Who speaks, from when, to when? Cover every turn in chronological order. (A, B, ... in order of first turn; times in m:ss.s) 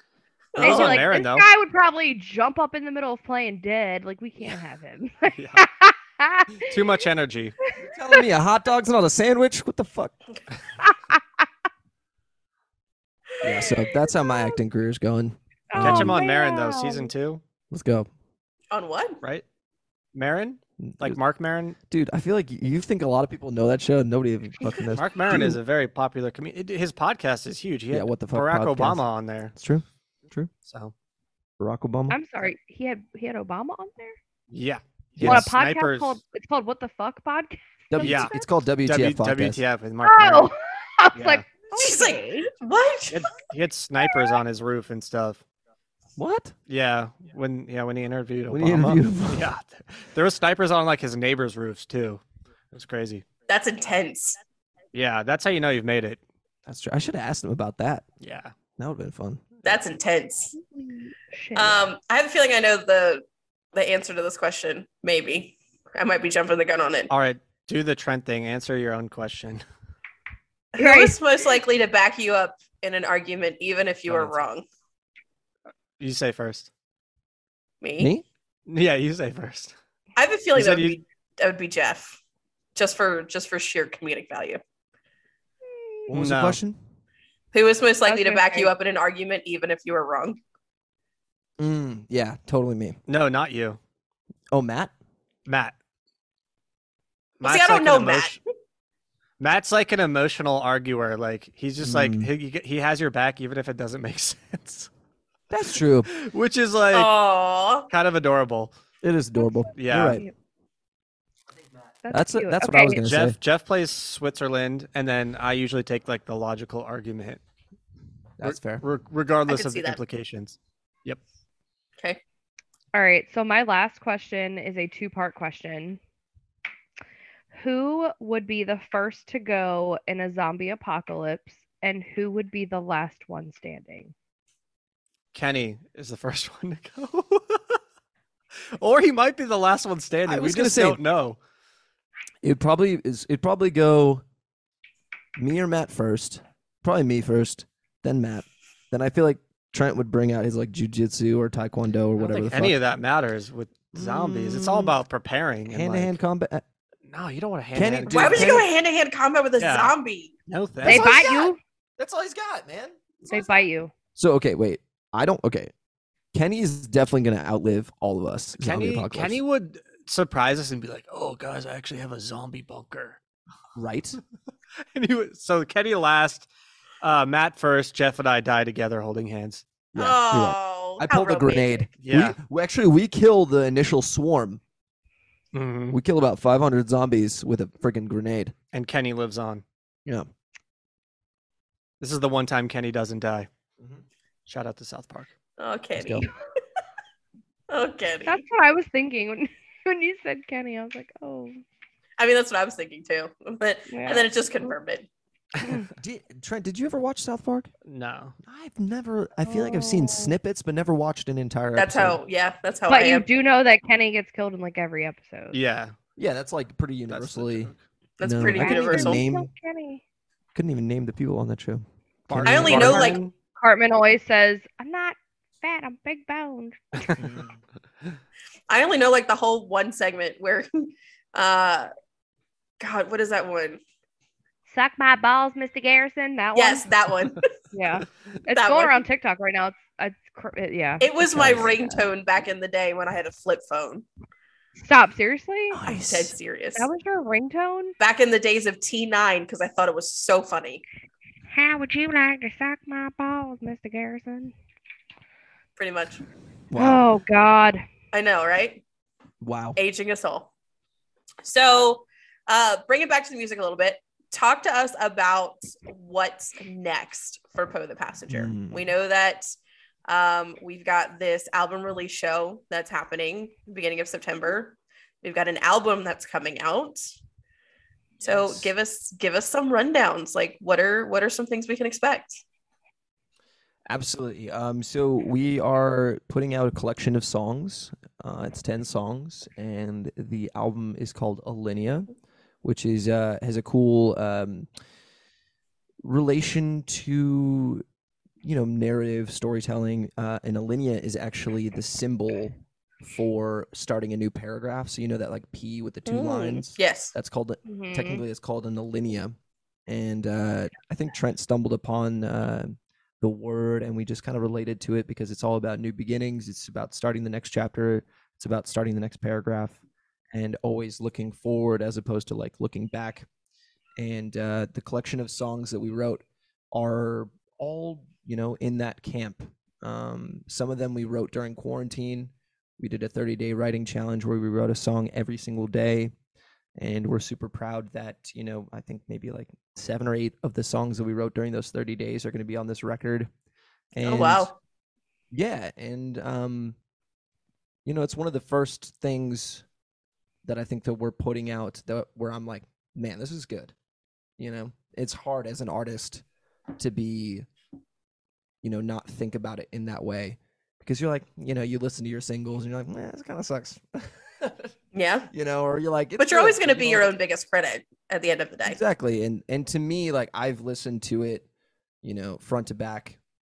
0:00.5-0:01.0 A
0:00.6-0:01.5 B
0:00.6-0:06.8 C
0:05.3-0:05.7 B
0:06.6-0:07.6 B
0:07.8-0:10.2 D
0:13.4-0:16.2 D
0:14.2-0:14.5 C
0:15.7-0:17.1 C
0:15.8-0:17.4 B
0:17.7-0:18.1 D
0:18.7-0:19.2 A
0:20.1-0:21.8 B
0:20.8-0:21.2 D
0:21.9-0:25.6 D
0:24.9-0:29.5 B
0:27.9-0:29.0 D
0:29.6-0:30.5 D
0:30.6-0:30.9 B
0:31.6-0:32.2 D
0:32.1-0:34.2 C
0:34.5-0:36.2 B
0:35.2-0:35.5 D
0:35.2-0:38.4 C
0:37.9-0:39.6 D
0:38.0-0:38.3 B
0:38.8-0:40.5 B
0:40.0-0:42.5 C
0:41.1-0:41.4 B
0:41.7-0:43.3 A
0:43.1-0:45.4 B
0:46.2-0:46.5 D
0:46.7-0:53.2 B
0:48.5-0:49.5 D
0:53.5-0:54.4 A
0:54.9-0:56.2 B
0:56.7-0:58.1 D
0:58.2-0:58.5 B
0:58.8-0:59.6 D
0:59.6-1:00.6 A
1:00.6-1:01.9 C
1:01.6-1:07.1 A
1:07.1-1:09.6 B
1:10.7-1:14.6 A
1:10.8-1:11.2 C
1:14.1-1:14.4 B
1:16.0-1:16.7 B
1:17.8-1:18.1 A
1:18.0-1:18.2 D
1:18.7-1:19.8 B
1:20.2-1:22.2 A
1:20.6-1:21.0 B
1:22.8-1:24.6 A
1:26.1-1:26.6 B
1:26.1-1:26.8 D
1:27.5-1:30.4 A
1:28.1-1:28.7 C
1:31.6-1:33.0 D
1:33.1-1:33.8 B
1:34.5-1:34.9 D
1:35.5-1:35.7 B
1:37.4-1:38.4 B
1:37.4-1:38.4 A
1:39.4-1:44.9 B
1:41.8-1:42.3 D
1:45.5-1:46.1 D
1:46.1-1:47.1 B
1:46.9-1:47.9 A
1:47.9-1:48.7 B
1:49.0-1:50.2 D
1:49.4-1:50.3 C
1:49.8-1:50.2 B
1:52.0-1:53.0 C
1:52.1-1:53.4 D
1:53.0-1:57.4 B
1:58.4-1:58.8 D
1:58.4-2:01.2 B
1:59.5-2:00.0 A
2:02.9-2:06.0 C
2:07.5-2:14.1 C
2:15.3-2:17.8 B
2:18.7-2:21.4 B
2:20.3-2:21.0 D
2:22.4-2:24.2 D
2:25.4-2:32.8 D
2:32.2-2:36.2 B
2:33.9-2:35.0 D
2:35.7-2:36.6 D
2:37.1-2:38.6 B
2:37.7-2:38.7 D
2:38.1-2:40.3 A
2:39.6-2:39.9 B
2:40.5-2:41.1 B
2:40.8-2:43.0 D
2:40.8-2:41.6 C
2:43.3-2:43.9 C
2:43.3-2:43.6 A
2:44.2-2:45.7 D
2:46.3-2:49.4 D
2:48.6-2:53.2 B
2:53.8-2:54.2 D
2:54.9-2:56.5 B
2:57.0-2:59.7 B
2:59.9-3:04.6 D
3:00.0-3:01.9 A
3:02.0-3:02.4 B
3:05.5-3:06.0 B
3:05.9-3:08.5 D
3:08.7-3:09.6 B
3:12.0-3:13.5 B
3:14.5-3:15.3 B
3:15.6-3:16.3 A
3:16.0-3:16.3 D
3:17.7-3:18.4 A
3:18.3-3:21.6 C
3:22.2-3:25.1 A
3:23.9-3:24.7 C
3:26.0-3:27.7 D
3:27.8-3:28.4 B
3:28.4-3:32.2 D
3:29.4-3:30.3 C
3:31.8-3:33.3 A
3:32.9-3:35.6 C
3:35.5-3:36.0 B
3:36.2-3:39.5 D
3:37.1-3:37.8 B
3:38.2-3:39.2 A
3:38.4-3:40.0 C
3:40.6-3:43.2 D
3:42.3-3:43.3 B
3:42.5-3:43.2 A
3:43.6-3:47.1 C
3:47.0-3:47.2 B
3:47.2-3:47.6 D
3:48.7-3:51.9 A
3:52.8-3:53.8 A
3:54.7-3:56.9 C
3:56.6-3:57.5 A
3:57.7-4:01.1 C
3:58.5-3:59.0 A
4:01.0-4:04.0 A
4:01.2-4:02.1 D
4:04.8-4:05.8 C
4:05.7-4:06.4 D
4:05.9-4:06.9 A
4:06.8-4:08.0 C
4:08.0-4:10.8 A
4:11.5-4:14.5 C
4:15.8-4:16.2 A
4:16.7-4:17.1 D
4:16.8-4:17.8 C
4:18.1-4:18.8 A
4:19.4-4:19.8 D
4:19.8-4:20.5 A
4:21.4-4:29.6 A
4:28.3-4:28.8 D
4:30.1-4:37.0 A
4:38.2-4:38.7 D
4:38.2-4:42.4 A
4:43.9-4:52.1 D
4:52.6-4:54.7 D
4:56.0-4:57.8 D
4:58.4-5:09.4 D
5:06.1-5:07.1 A
5:07.7-5:08.2 C
5:09.9-5:19.8 D
5:20.3-5:23.3 D
5:24.0-5:36.1 D
5:36.8-5:43.3 D
5:43.9-5:44.5 D
5:44.0-5:44.6 A
5:45.3-5:46.8 D
5:47.8-5:49.6 D
5:50.4-5:53.7 D
5:54.4-5:56.2 D
5:56.8-5:57.5 D
5:58.6-6:04.7 D
6:04.9-6:05.3 A
6:05.3-6:07.1 D
6:06.2-6:08.8 A
6:08.7-6:11.5 D
6:12.0-6:13.2 D